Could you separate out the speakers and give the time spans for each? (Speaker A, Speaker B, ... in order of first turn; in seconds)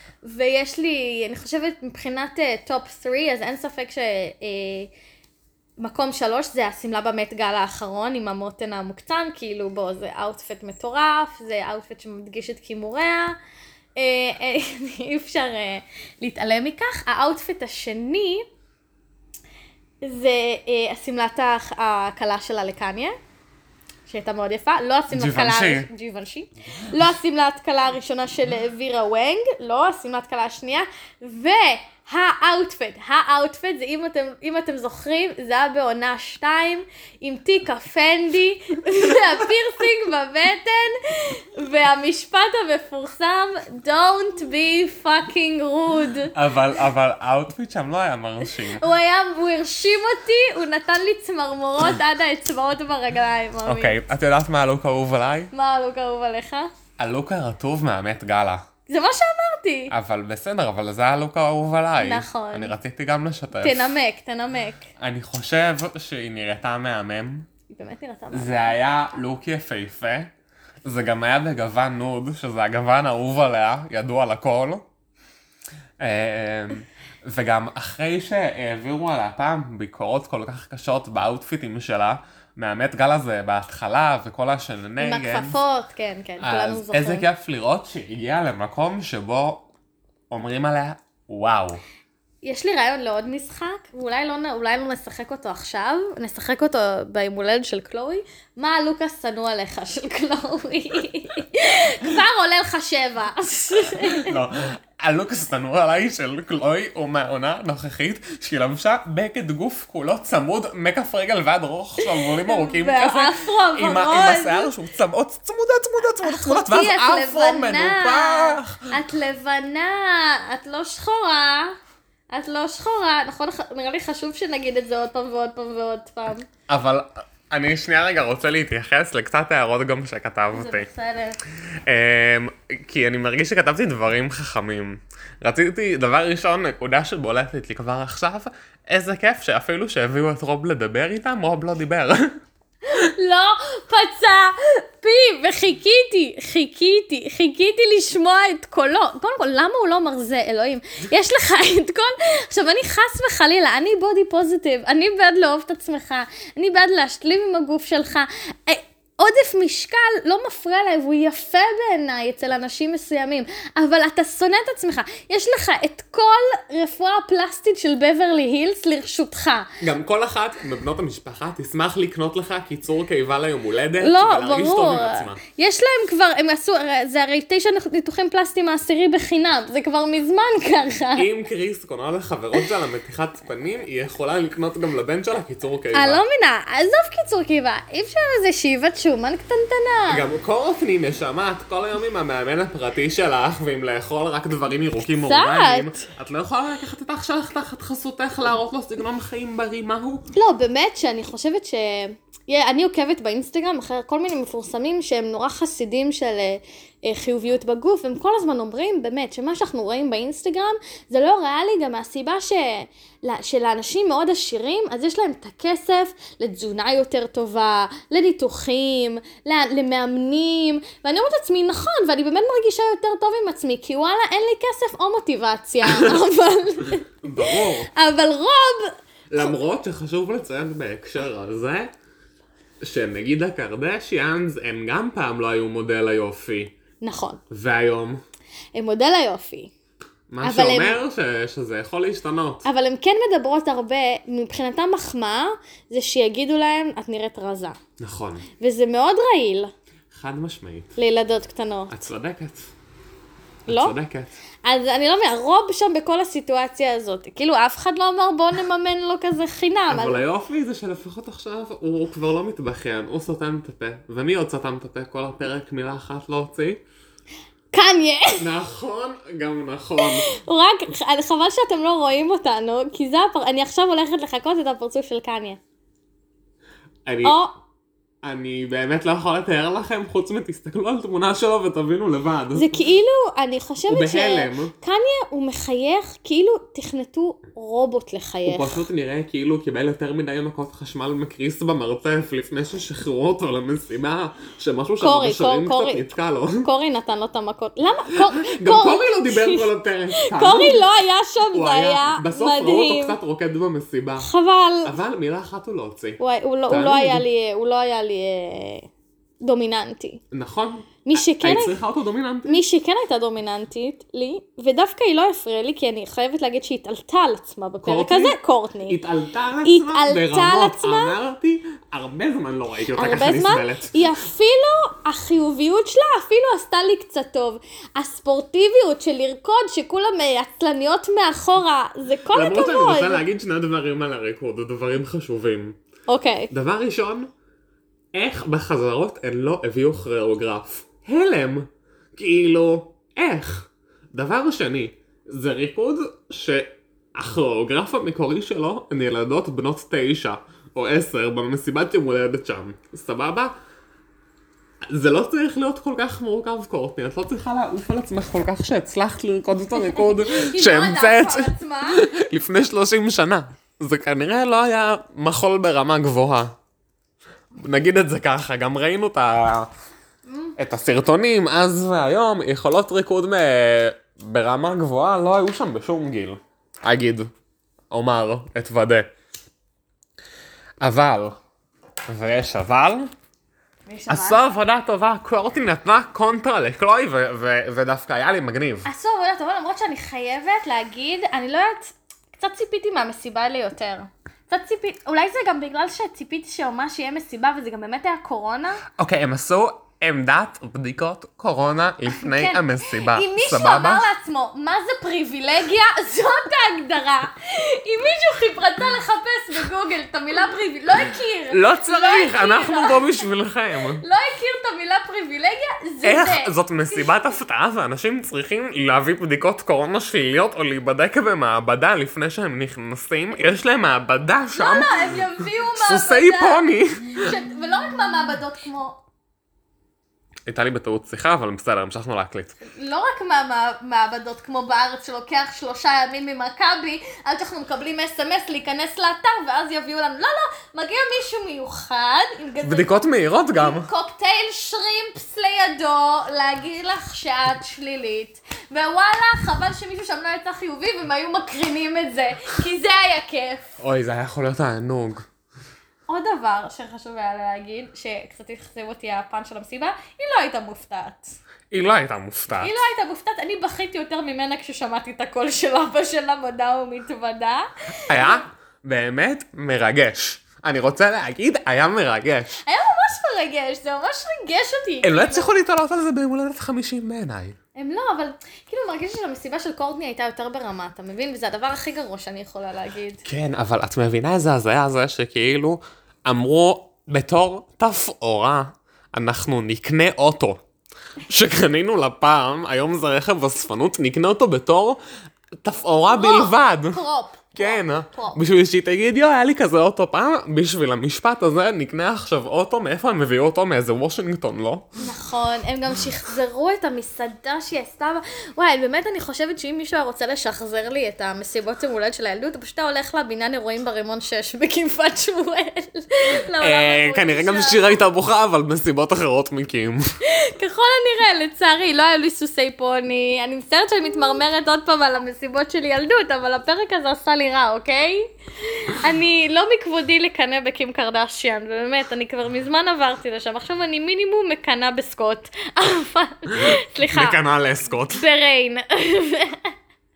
Speaker A: 0.2-4.9, 5.8-13.3, 14.0-18.4, 20.0-23.1, 24.1-46.3, 48.5-54.0, 55.5-56.7, 58.9-59.9, 62.0-62.7, 63.6-64.9, 67.7-68.7, 85.0-87.2, 92.4-104.4, 112.0-114.7, 116.2-121.7, 122.3-126.5, 130.5-131.4, 142.8-169.7, 174.0-181.3, 185.9-190.2, 195.2-196.0, 200.3-229.5, 237.0-237.4, 238.7-239.7, 240.4-241.0, 242.6-247.8, 248.6-249.7, 251.0-251.9, 253.7-253.9, 254.6-260.2, 267.7-268.4, 270.0-275.6, 277.2-277.5, 282.5-288.8, 295.0-296.1, 296.6-299.7, 300.2-303.2, 304.2-304.9, 306.2-308.9, 309.4-310.2, 311.0-311.7, 312.4-319.0, 319.6-321.1, 322.9-333.2, 336.1-336.5, 359.8-362.0, 370.2-370.6, 383.9-384.4, 388.8-398.8, 402.1-413.1, 414.0-417.1, 424.5-426.6, 427.2-429.0, 432.6-443.0, 443.5-453.6, 456.1-461.3, 462.6-468.4, 472.6-475.5, 477.8-483.2, 496.1-498.4, 505.0-518.0, 520.3-528.2, 528.8-537.4, 538.1-539.6
Speaker B: 25.1-25.9, 46.3-48.8, 53.6-55.5, 57.0-58.6, 59.9-63.9, 65.0-67.5, 68.3-70.3, 70.8-74.8, 76.0-85.6, 86.4-89.7, 90.3-91.8, 104.1-118.9, 126.7-130.9, 131.8-142.3, 169.8-175.4, 181.2-186.2, 190.1-200.2, 227.2-227.9, 229.3-231.9, 232.8-236.7, 237.5-238.2, 240.3-242.7, 248.0-248.4, 250.1-250.9, 251.9-252.7, 253.7-254.3, 259.9-266.8, 268.4-270.3, 277.1-277.4, 278.2-282.7, 283.9-284.7, 288.4-296.7, 298.4-300.9, 301.5-304.3, 304.8-307.2, 310.3-312.6, 317.8-323.9, 332.3-335.8, 336.5-337.3, 338.1-353.5, 354.9-366.6, 367.6-369.7, 370.6-377.3, 377.9-379.1, 380.8-381.4, 382.1-383.1, 384.1-388.9, 399.0-404.1, 411.5-414.0, 416.0-427.4, 430.5-432.5, 442.6-443.9, 453.8-455.2, 461.7-462.8, 468.1-472.6, 475.0-477.6, 483.2-490.6, 491.3-495.0, 495.6-497.0, 497.5-504.8, 516.6-520.0, 537.1-538.2